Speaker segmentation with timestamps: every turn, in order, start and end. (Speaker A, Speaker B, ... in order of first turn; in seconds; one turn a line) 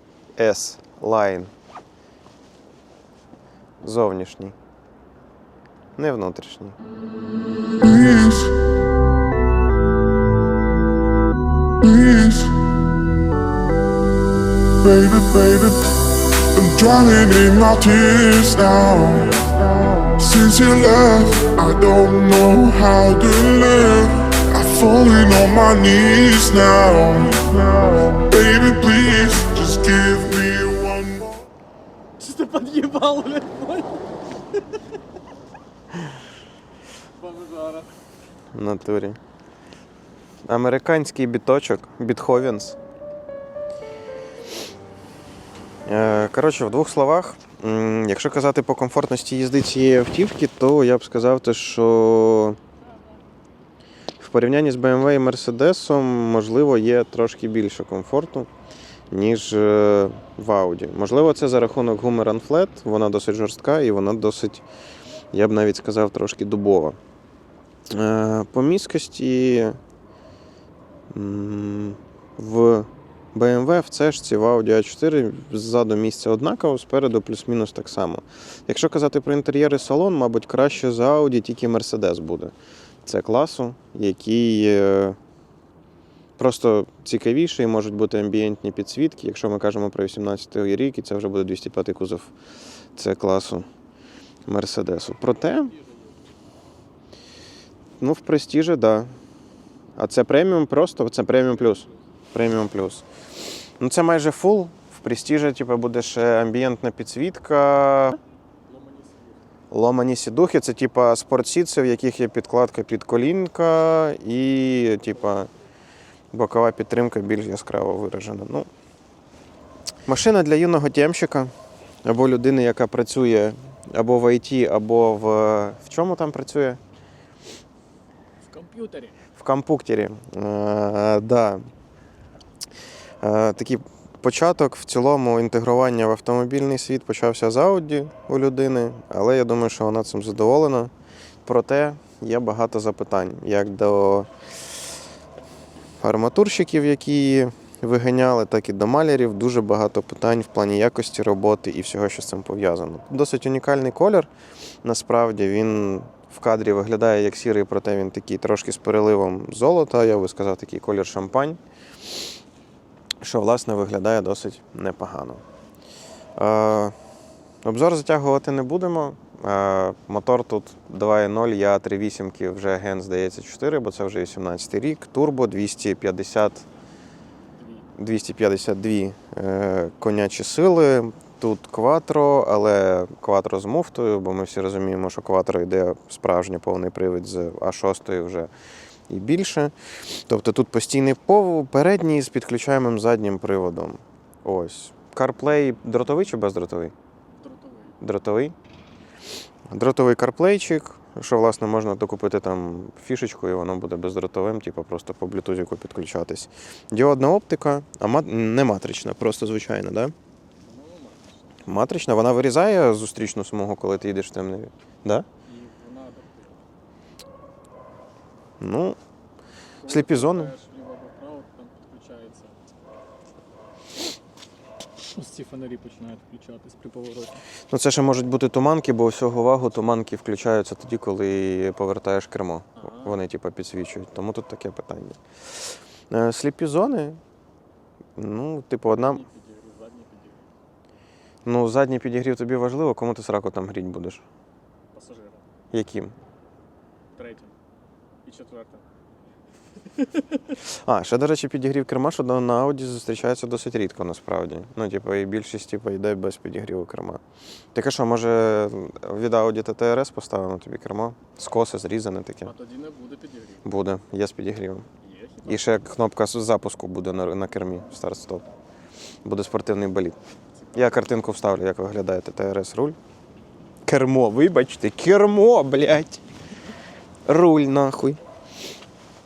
Speaker A: 0.3-1.5
Speaker A: 3.8-4.5
Speaker A: 6.0-6.8
Speaker B: 7.8-8.5
Speaker B: 11.8-12.5
Speaker B: 14.8-15.9
Speaker B: 16.5-31.4
Speaker C: 32.2-34.0
Speaker C: 37.2-37.9
Speaker A: 38.5-39.2
Speaker A: 40.4-42.8
Speaker A: 45.9-52.6
Speaker A: 54.2-58.5
Speaker A: 59.1-64.6
Speaker A: 65.3-67.0
Speaker A: 67.9-69.8
Speaker A: 71.1-82.5
Speaker A: 83.0-85.2
Speaker A: 86.4-92.3
Speaker A: 93.0-93.7
Speaker A: 94.5-95.7
Speaker A: 98.0-99.1
Speaker A: 100.0-103.0
Speaker A: 103.7-108.2
Speaker C: 108.7-109.3
Speaker A: 109.7-115.5
Speaker A: 116.3-118.7
Speaker A: 120.0-121.5
Speaker A: 122.0-126.8
Speaker C: 128.4-129.2
Speaker A: 129.3-131.7
Speaker A: 133.2-140.9
Speaker A: 141.4-144.3
Speaker A: 146.0-154.3
Speaker A: 154.8-161.6
Speaker A: 163.2-165.4
Speaker A: 166.4-166.9
Speaker A: 167.6-176.7
Speaker C: 177.6-177.8
Speaker A: 178.0-188.5
Speaker A: 189.1-189.7
Speaker A: 190.3-196.9
Speaker C: 197.4-198.0
Speaker A: 198.0-198.5
Speaker A: 199.7-210.1
Speaker C: 210.6-211.5
Speaker A: 211.7-215.2
Speaker C: 215.5-216.6
Speaker A: 218.6-219.0
Speaker C: 219.8-222.6
Speaker A: 219.8-220.5
Speaker C: 225.0-227.4
Speaker A: 227.7-237.2
Speaker C: 232.8-233.2
Speaker A: 238.2-239.2
Speaker C: 238.8-240.5
Speaker A: 241.4-244.2
Speaker C: 244.9-245.4
Speaker A: 245.7-246.2
Speaker C: 247.2-247.5
Speaker C: 248.2-248.8
Speaker C: 249.9-250.6
Speaker A: 250.6-257.2
Speaker A: 257.7-262.5
Speaker C: 262.4-263.6
Speaker A: 263.6-264.9
Speaker C: 265.0-265.7
Speaker A: 265.4-268.4
Speaker A: 269.2-270.2
Speaker C: 270.6-271.1
Speaker A: 270.7-273.0
Speaker A: 273.9-276.2
Speaker A: 277.3-278.2